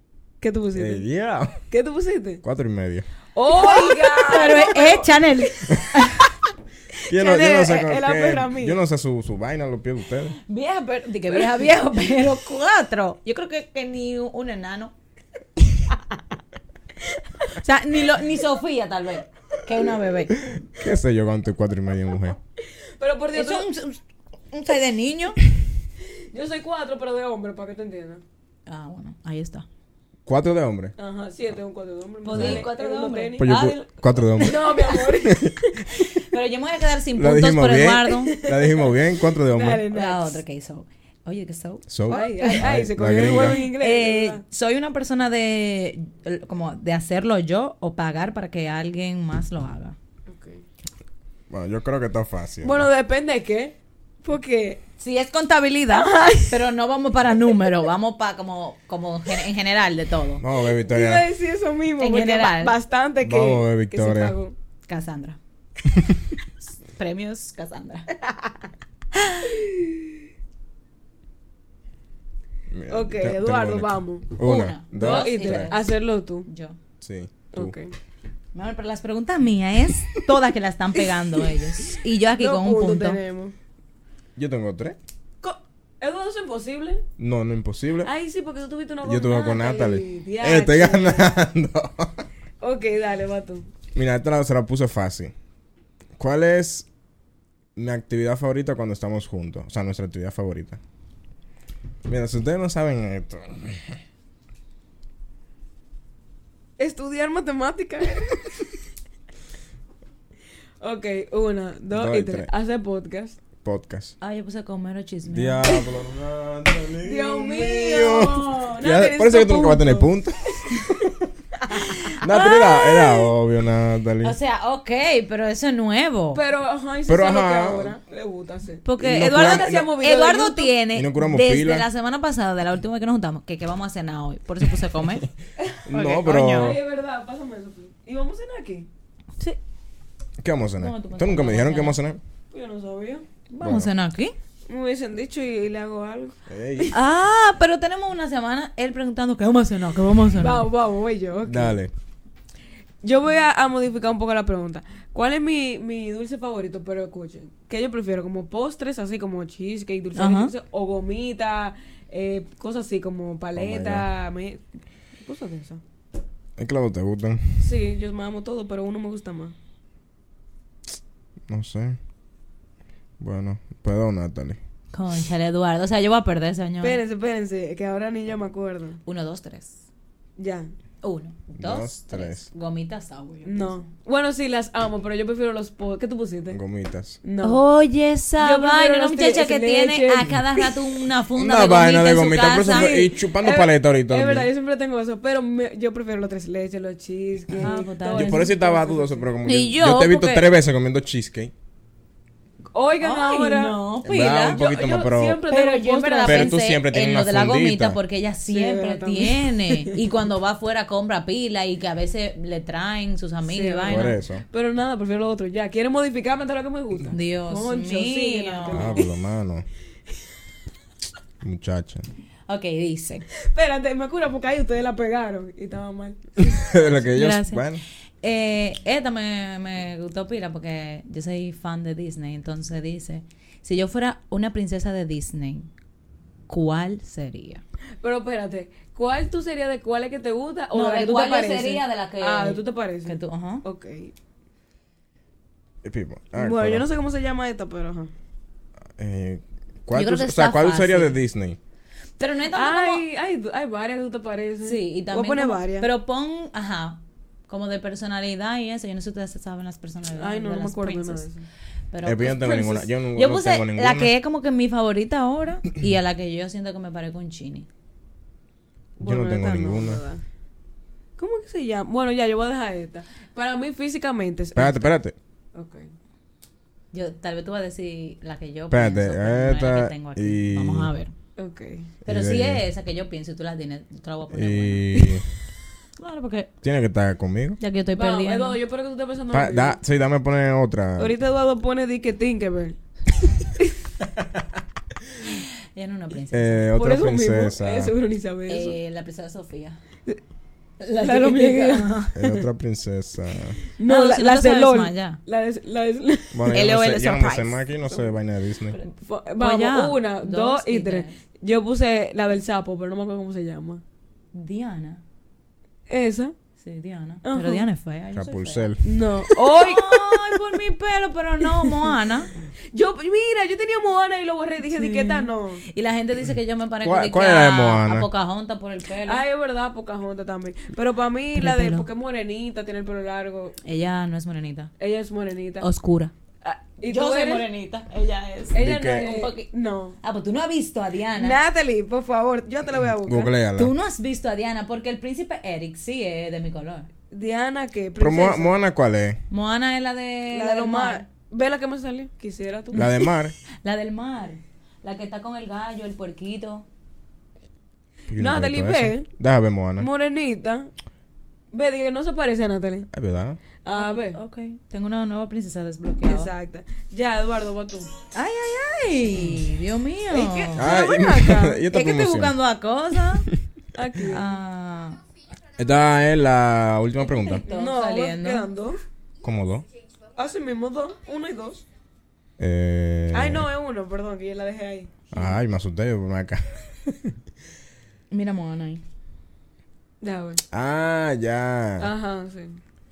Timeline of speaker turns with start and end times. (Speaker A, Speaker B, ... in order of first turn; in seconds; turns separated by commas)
Speaker A: 0.4-1.1, Speaker B: 0.7-1.6, Speaker A: 1.7-2.4, Speaker B: 2.4-3.1, Speaker A: 3.3-5.2, Speaker C: 3.5-6.3, Speaker A: 7.0-8.8, Speaker B: 7.1-10.4, Speaker C: 10.4-14.9, Speaker A: 11.3-11.6, Speaker C: 17.5-20.4, Speaker B: 20.5-22.4, Speaker A: 23.0-23.6, Speaker C: 23.3-24.0, Speaker C: 24.5-25.4, Speaker A: 26.3-28.2, Speaker C: 28.7-29.6, Speaker B: 30.2-30.9, Speaker A: 31.0-33.6, Speaker C: 32.2-34.8, Speaker B: 32.3-32.7, Speaker B: 33.4-35.6, Speaker A: 34.4-35.8, Speaker C: 35.9-38.4, Speaker B: 37.1-39.9, Speaker A: 38.3-40.4, Speaker C: 39.9-50.0, Speaker B: 41.9-43.6, Speaker A: 42.1-44.4, Speaker A: 50.3-50.6, Speaker B: 51.5-52.9, Speaker A: 52.6-54.8, Speaker C: 55.0-60.4, Speaker A: 55.9-56.6, Speaker B: 60.4-61.3, Speaker A: 60.8-64.5, Speaker C: 62.0-62.8, Speaker B: 63.2-64.3, Speaker C: 64.9-65.4, Speaker C: 66.9-68.1, Speaker C: 69.1-69.6, Speaker B: 72.7-75.7, Speaker A: 72.9-74.3, Speaker C: 74.4-75.9, Speaker A: 74.9-76.5, Speaker C: 76.5-76.8, Speaker B: 77.0-77.7, Speaker A: 77.5-77.9, Speaker C: 78.5-83.2, Speaker A: 81.8-83.5, Speaker B: 84.3-85.0, Speaker A: 85.4-87.0, Speaker B: 87.2-88.1, Speaker A: 88.0-91.4, Speaker B: 89.0-92.2, Speaker A: 92.6-93.7, Speaker B: 93.9-95.3, Speaker B: 96.2-96.9, Speaker B: 97.8-100.8, Speaker B: 102.0-104.0, Speaker A: 106.8-108.6, Speaker A: 110.8-113.4, Speaker B: 111.9-112.5, Speaker B: 113.6-114.1, Speaker C: 114.2-115.7, Speaker B: 115.3-121.1, Speaker A: 117.0-120.1, Speaker C: 121.7-123.3, Speaker B: 122.1-124.3, Speaker C: 124.2-126.4, Speaker A: 126.3-130.8, Speaker B: 127.1-127.9, Speaker C: 128.8-135.3, Speaker B: 129.0-129.9, Speaker B: 130.9-131.9, Speaker A: 135.7-138.9, Speaker B: 135.8-136.8, Speaker C: 135.9-136.8, Speaker B: 140.4-142.2, Speaker C: 140.8-142.0, Speaker A: 142.5-143.2, Speaker C: 143.5-144.3, Speaker B: 143.6-143.9, Speaker A: 144.7-146.9, Speaker B: 146.5-146.9, Speaker C: 146.9-150.7, Speaker A: 150.4-151.8, Speaker B: 151.4-151.9, Speaker A: 153.0-164.6, Speaker C: 160.2-160.5, Speaker B: 163.6-164.1, Speaker A: 165.2-165.8, Speaker B: 166.6-167.7, Speaker A: 167.6-169.5, Speaker B: 171.5-172.0, Speaker B: 173.2-174.6, Speaker C: 174.9-177.0, Speaker A: 176.8-179.0, Speaker C: 179.1-179.8, Speaker A: 180.4-180.7, Speaker C: 181.0-183.9, Speaker B: 181.6-182.5, Speaker A: 183.4-186.6, Speaker B: 186.5-187.2, Speaker A: 187.2-187.6, Speaker C: 187.4-192.9, Speaker A: 188.4-190.7, Speaker B: 191.3-194.5, Speaker A: 192.6-199.3, Speaker C: 197.6-198.5, Speaker B: 198.1-201.5, Speaker C: 199.4-200.5, Speaker A: 202.7-203.8, Speaker C: 203.0-204.6, Speaker B: 204.0-205.4, Speaker A: 204.5-206.6, Speaker C: 205.5-214.2, Speaker B: 206.2-208.0, Speaker A: 208.5-210.0, Speaker A: 213.4-219.1, Speaker B: 213.9-214.4, Speaker C: 217.1-219.0, Speaker B: 218.7-219.6, Speaker B: 221.4-222.1, Speaker C: 222.5-223.2, Speaker A: 223.4-226.9, Speaker B: 226.4-227.8, Speaker C: 227.1-227.6, Speaker C: 228.2-235.7, Speaker C: 236.5-237.6, Speaker A: 238.0-244.1, Speaker C: 240.7-243.6, Speaker B: 245.8-246.8, Speaker A: 246.3-248.1, Speaker B: 249.0-251.6, Speaker C: 249.9-251.2, Speaker C: 252.2-253.0, Speaker A: 252.5-255.9, Speaker C: 254.6-261.2, Speaker A: 260.2-261.5, Speaker C: 261.9-267.7, Speaker B: 262.0-264.1, Speaker A: 269.0-270.2, Speaker B: 269.0-270.0, Speaker A: 271.2-274.9, Speaker B: 274.5-275.1, Speaker A: 275.5-275.9, Speaker C: 276.9-281.1, Speaker B: 278.7-280.9, Speaker A: 281.4-281.9, Speaker B: 282.0-282.6, Speaker C: 282.1-285.0, Speaker B: 284.3-285.2, Speaker C: 286.0-286.5, Speaker B: 286.6-287.6, Speaker C: 287.6-288.6, Speaker A: 287.9-289.8, Speaker B: 289.3-291.1, Speaker A: 291.0-292.8, Speaker A: 293.4-293.7, Speaker C: 295.7-296.6, Speaker B: 296.3-297.9, Speaker A: 296.8-298.8, Speaker C: 298.5-299.8, Speaker C: 300.8-302.2, Speaker A: 301.0-302.4, Speaker B: 302.1-303.6, Speaker A: 303.7-306.5, Speaker C: 303.8-305.2, Speaker B: 306.3-308.8, Speaker C: 306.5-307.6, Speaker A: 308.7-313.8, Speaker C: 309.4-311.2, Speaker C: 314.3-315.0, Speaker A: 315.9-316.3, Speaker C: 316.6-318.7, Speaker A: 317.2-317.6, Speaker B: 318.1-318.9, Speaker A: 318.8-320.6, Speaker C: 319.4-322.3, Speaker A: 321.5-321.9, Speaker A: 322.7-325.6, Speaker C: 324.7-329.2, Speaker B: 326.8-328.1, Speaker A: 329.0-333.6, Speaker C: 331.3-331.9, Speaker C: 333.6-334.7, Speaker A: 334.8-335.7, Speaker C: 335.6-336.1, Speaker A: 336.4-337.4, Speaker C: 336.8-339.5, Speaker A: 338.5-340.0, Speaker B: 338.6-339.1, Speaker C: 340.0-341.4, Speaker A: 341.2-343.3, Speaker B: 343.0-343.7, Speaker C: 343.6-346.9, Speaker A: 347.1-348.6, Speaker B: 348.0-349.2, Speaker C: 349.3-351.0, Speaker A: 350.3-352.9, Speaker B: 352.7-353.3, Speaker C: 352.8-353.0, Speaker C: 353.6-356.6, Speaker B: 358.1-359.9, Speaker A: 358.2-359.1, Speaker A: 359.8-360.7, Speaker A: 361.5-362.9, Speaker B: 362.9-363.4, Speaker A: 363.6-364.2, Speaker C: 363.7-366.3, Speaker A: 366.0-367.9, Speaker C: 368.1-370.7, Speaker A: 370.1-371.7, Speaker B: 370.6-372.3, Speaker C: 371.7-373.3, Speaker A: 373.7-374.3, Speaker C: 374.1-375.0, Speaker B: 375.6-377.4, Speaker C: 377.3-378.5, Speaker A: 377.5-378.8, Speaker B: 379.2-379.6, Speaker A: 380.1-381.6, Speaker B: 382.4-383.5, Speaker A: 383.1-385.3, Speaker B: 385.1-387.1, Speaker C: 388.1-388.8, Speaker A: 390.0-390.4, Speaker B: 390.5-391.9, Speaker A: 391.8-392.6